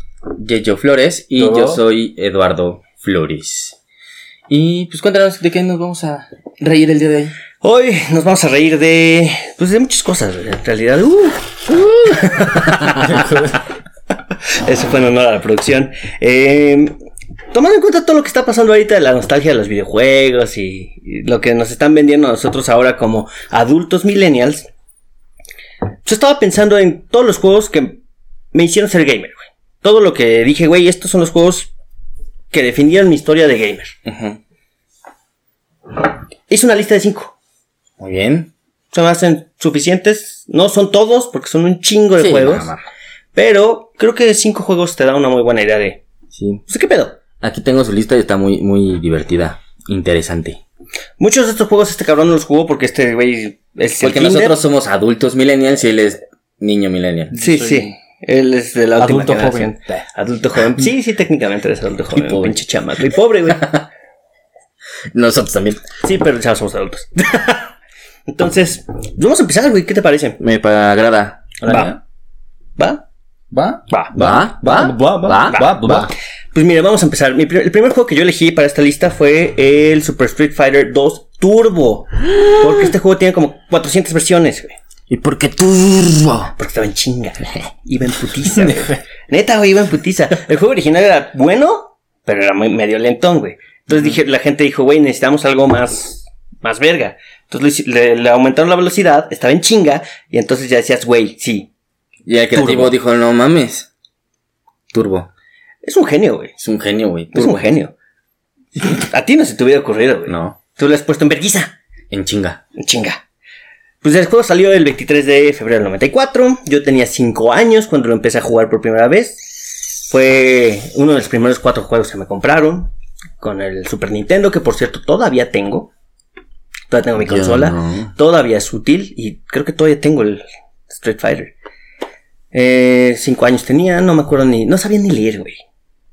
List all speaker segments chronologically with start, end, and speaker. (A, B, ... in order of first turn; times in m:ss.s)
0:00.3-0:03.8 A
0:01.4-0:01.8 B
0:04.5-0:07.4 A
0:07.6-0:13.4 C
0:12.0-0:13.1 A
0:14.6-0:16.9 C
0:17.5-0:24.7 C
0:26.0-0:28.0 C
0:28.5-0:31.7 C
0:32.5-0:34.0 C
0:34.1-0:34.4 A
0:36.5-0:37.4 C
0:38.0-0:38.5 A
0:38.9-0:42.7 C
0:42.2-0:42.9 A
0:43.3-0:46.0 C
0:46.3-0:46.6 A
0:46.7-0:47.2 C
0:47.4-0:50.6 A
0:51.2-0:54.6 C
0:54.0-0:57.4 A
0:57.3-0:57.9 B
0:57.4-1:03.8 C
0:59.0-1:00.0 A
0:59.0-0:59.6 B
1:02.1-1:02.6 A
1:03.5-1:03.8 A
1:05.1-1:05.8 A
1:06.0-1:07.7 C
1:08.3-1:10.4 C
1:10.4-1:12.0 A
1:11.6-1:12.0 C
1:12.8-1:13.0 C
1:13.5-1:16.1 B
1:13.9-1:14.2 C
1:14.2-1:16.1 A
1:15.4-1:16.0 C
1:16.5-1:24.8 C
1:25.1-1:26.5 A
1:26.6-1:41.7 C
1:42.3-1:43.9 A
1:42.5-1:42.9 C
1:44.9-1:45.3 A
1:45.8-1:46.5 C
1:46.6-1:47.6 A
1:47.3-1:47.9 C
1:48.8-1:51.8 C
1:50.3-1:50.6 A
1:52.1-1:52.6 A
1:52.8-1:53.2 C
1:54.0-2:05.9 C
2:06.9-2:11.5 C
2:07.2-2:08.1 A
2:12.5-2:15.6 C